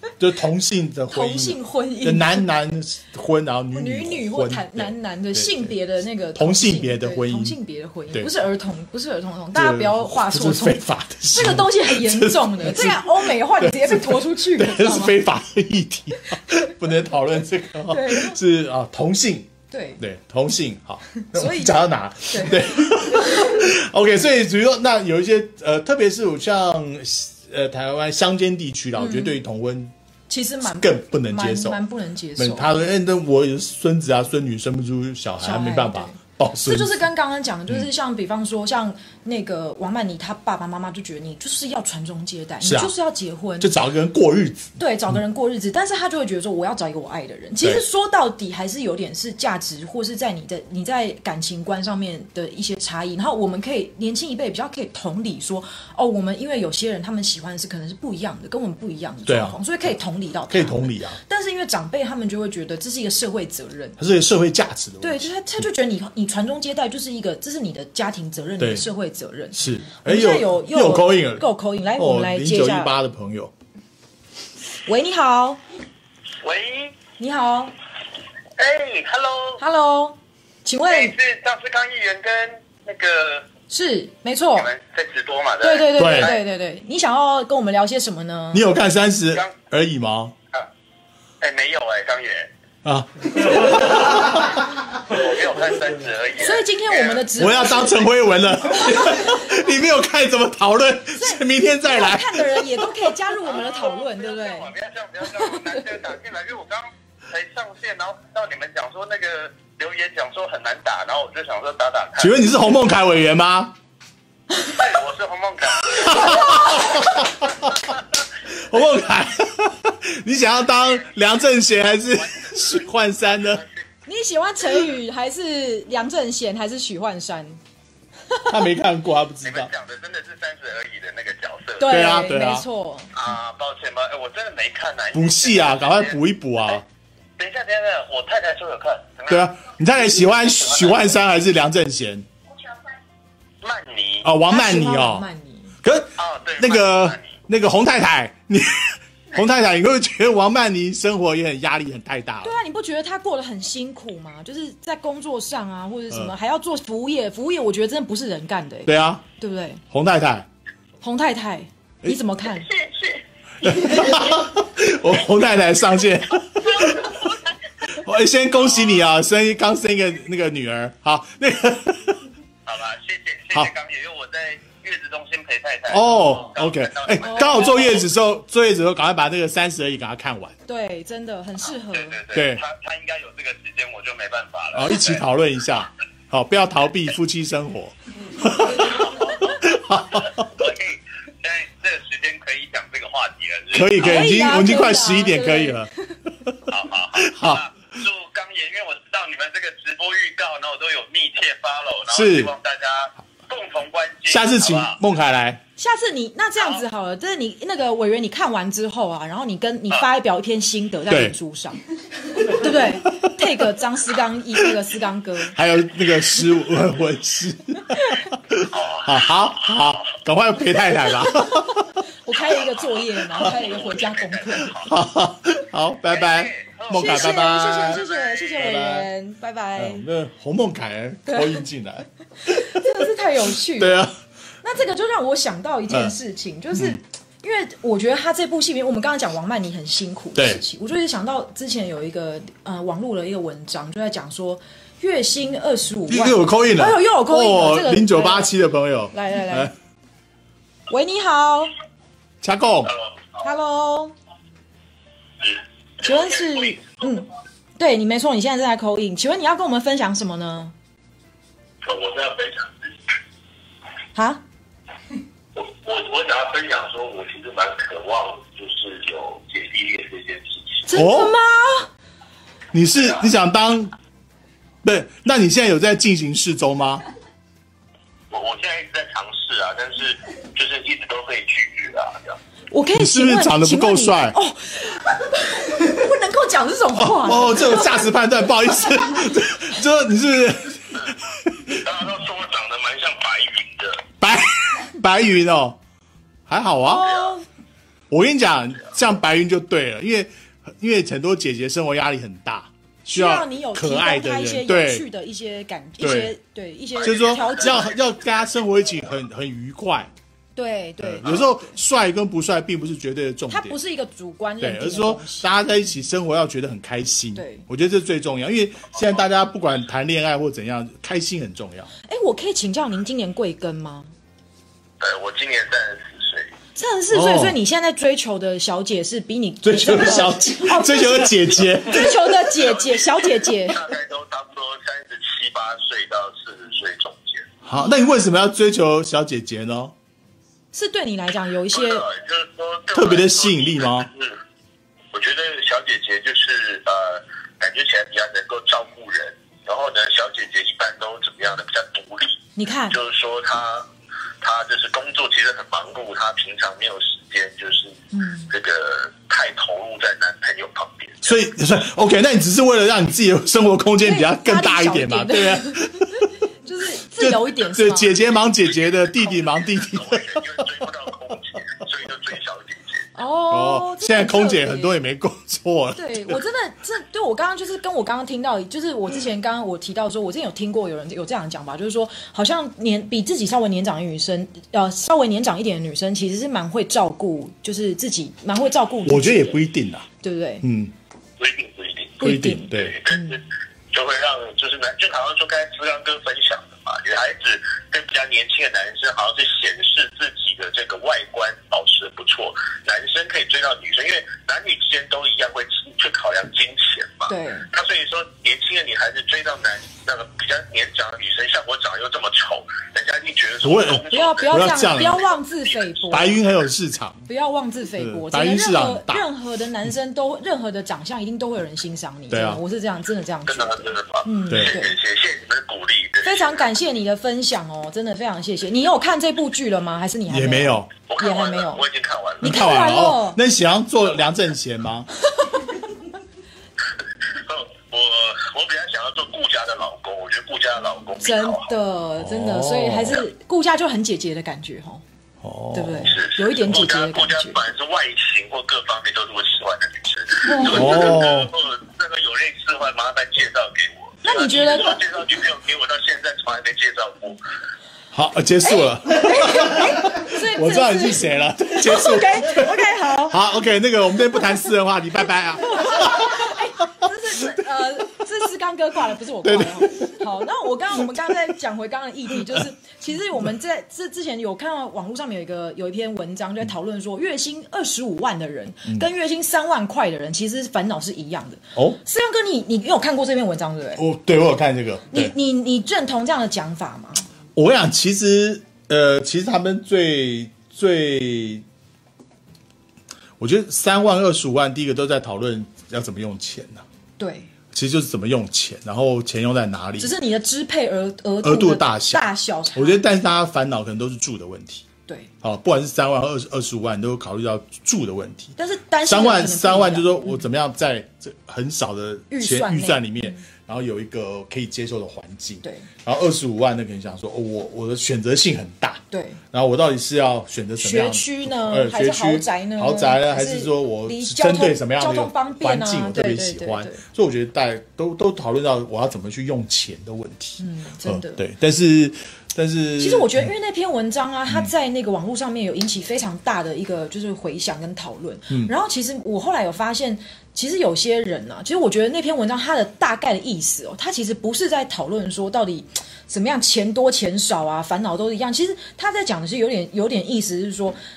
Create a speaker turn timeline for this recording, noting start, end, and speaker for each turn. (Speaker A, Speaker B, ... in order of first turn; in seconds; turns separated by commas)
Speaker A: 0.2-5.8, Speaker B: 1.1-2.5, Speaker B: 3.7-15.2, Speaker A: 6.3-7.6, Speaker A: 9.5-29.9, Speaker B: 17.9-18.4, Speaker B: 19.7-20.0, Speaker B: 21.2-23.6, Speaker B: 29.0-29.4, Speaker B: 30.3-32.7, Speaker A: 30.6-31.8, Speaker A: 32.4-37.0, Speaker B: 35.4-43.8, Speaker A: 42.6-43.0, Speaker A: 43.6-45.2, Speaker B: 44.8-64.0, Speaker A: 59.3-59.9, Speaker A: 60.5-61.2, Speaker A: 64.0-65.3, Speaker B: 65.0-72.9, Speaker A: 68.6-68.9, Speaker A: 69.6-73.5, Speaker B: 74.9-75.6, Speaker C: 76.4-76.9, Speaker B: 77.2-77.7, Speaker C: 78.6-79.6, Speaker B: 79.6-81.2, Speaker C: 80.9-83.5, Speaker B: 83.7-84.7, Speaker C: 84.5-86.4, Speaker B: 85.6-88.7, Speaker A: 85.9-86.3, Speaker A: 88.5-90.3, Speaker C: 91.4-92.5, Speaker A: 92.8-94.6, Speaker C: 95.1-97.3, Speaker B: 96.4-98.1, Speaker A: 97.3-103.1, Speaker B: 101.2-104.7, Speaker C: 103.4-112.4, Speaker B: 105.4-105.8, Speaker A: 112.2-113.8, Speaker C: 114.7-117.0, Speaker A: 115.9-117.9, Speaker A: 118.5-123.6, Speaker C: 120.6-121.1, Speaker C: 122.0-123.7, Speaker B: 124.1-127.6, Speaker A: 128.5-129.7, Speaker C: 129.4-132.0, Speaker B: 131.8-133.1, Speaker A: 131.8-132.7, Speaker C: 133.2-136.8, Speaker A: 135.1-136.8, Speaker C: 137.4-139.5, Speaker A: 139.3-142.3, Speaker C: 140.2-141.2, Speaker C: 143.6-144.3, Speaker A: 144.2-145.3, Speaker B: 144.5-145.8, Speaker A: 145.8-152.6, Speaker C: 146.2-147.4, Speaker B: 152.4-159.8, Speaker A: 158.9-159.2, Speaker A: 159.9-160.5, Speaker B: 161.0-162.7, Speaker C: 162.5-163.2, Speaker A: 163.6-167.2, Speaker C: 163.8-164.1, Speaker A: 167.9-172.2, Speaker C: 172.7-178.1, Speaker A: 175.9-180.6, Speaker B: 177.2-178.0, Speaker B: 180.7-182.2, Speaker C: 181.8-185.2, Speaker A: 182.3-182.6, Speaker A: 184.7-190.5, Speaker C: 188.8-194.1, Speaker A: 193.7-195.9, Speaker B: 194.0-196.2, Speaker C: 196.7-205.0, Speaker A: 197.2-197.6, Speaker A: 202.1-202.5, Speaker A: 204.3-205.6, Speaker B: 205.8-211.8, Speaker A: 211.1-211.4, Speaker B: 212.4-215.6, Speaker A: 212.7-213.5, Speaker A: 215.5-221.9, Speaker C: 218.7-220.0, Speaker B: 221.3-224.8, Speaker C: 222.4-224.9, Speaker A: 224.8-229.1, Speaker C: 226.0-228.6, Speaker B: 226.9-230.0, Speaker A: 229.8-232.8, Speaker B: 231.3-231.6, Speaker B: 232.5-234.0, Speaker A: 233.7-234.1, Speaker B: 234.6-248.5, Speaker A: 236.7-237.0, Speaker A: 240.3-240.6, Speaker A: 246.1-249.7, Speaker B: 249.1-249.7, Speaker B: 250.9-251.7, Speaker A: 252.4-252.9, Speaker B: 253.4-254.1, Speaker C: 255.4-256.9, Speaker B: 256.0-257.3, Speaker B: 257.8-260.7, Speaker C: 261.8-262.9, Speaker B: 264.1-264.4, Speaker C: 265.6-270.8, Speaker B: 270.9-271.9, Speaker A: 270.9-271.3, Speaker A: 272.7-273.9, Speaker A: 274.8-277.1, Speaker C: 278.3-282.4, Speaker B: 282.7-288.1, Speaker A: 282.9-284.4, Speaker A: 287.0-291.8, Speaker C: 291.7-294.1, Speaker A: 294.2-295.8, Speaker A: 296.5-297.2, Speaker B: 296.8-297.4, Speaker A: 298.1-305.1, Speaker B: 303.1-307.9, Speaker A: 306.0-306.4, Speaker C: 307.0-308.0, Speaker A: 307.0-310.1, Speaker B: 310.6-311.8, Speaker A: 311.0-313.8, Speaker B: 313.5-315.5, Speaker A: 314.6-321.9, Speaker B: 317.4-317.6, Speaker B: 322.1-324.1, Speaker C: 325.0-326.5, Speaker B: 326.8-333.9, Speaker A: 327.1-327.6, Speaker A: 329.6-332.3, Speaker C: 332.5-337.5, Speaker A: 337.6-339.9, Speaker B: 340.7-342.1, Speaker C: 341.7-344.4, Speaker A: 342.9-344.1, Speaker C: 345.1-353.9, Speaker B: 352.6-353.0, Speaker C: 354.4-361.4, Speaker B: 358.1-358.5, Speaker A: 361.2-366.3, Speaker B: 364.0-368.1, Speaker A: 367.2-371.4, Speaker C: 368.7-373.0, Speaker B: 373.1-375.0, Speaker A: 373.5-376.4, Speaker B: 375.9-389.6, Speaker A: 389.0-390.1, Speaker B: 390.2-390.7, Speaker A: 390.6-390.9, Speaker C: 391.4-416.4, Speaker A: 392.2-393.0, Speaker B: 392.2-393.4, Speaker B: 407.3-407.7, Speaker A: 413.6-415.2, Speaker B: 414.1-416.4, Speaker A: 416.1-417.3, Speaker B: 417.3-425.0, Speaker A: 418.0-419.3, Speaker A: 422.3-422.6, Speaker C: 423.5-426.7, Speaker A: 424.5-424.8, Speaker B: 426.2-431.8, Speaker A: 430.3-430.9, Speaker C: 431.0-432.6, Speaker B: 432.4-433.4, Speaker A: 432.4-435.1, Speaker C: 437.3-441.7, Speaker B: 441.2-445.0, Speaker A: 442.2-443.2, Speaker A: 445.4-446.2, Speaker B: 445.7-447.6, Speaker C: 446.1-457.4, Speaker A: 450.6-451.5, Speaker B: 450.8-451.1, Speaker B: 454.2-455.0, Speaker A: 458.1-466.6, Speaker B: 458.6-463.4, Speaker B: 465.7-484.0, Speaker A: 469.4-470.3, Speaker A: 484.0-485.3, Speaker B: 485.1-487.3, Speaker A: 487.6-491.6, Speaker A: 493.4-496.8, Speaker B: 497.2-497.5, Speaker A: 497.7-500.2, Speaker B: 500.0-503.0, Speaker A: 501.4-504.9, Speaker A: 505.4-533.5, Speaker B: 508.6-510.4, Speaker B: 512.3-513.4, Speaker B: 515.6-515.9, Speaker B: 519.1-519.4, Speaker B: 520.8-527.0, Speaker B: 530.6-531.5, Speaker B: 533.0-551.0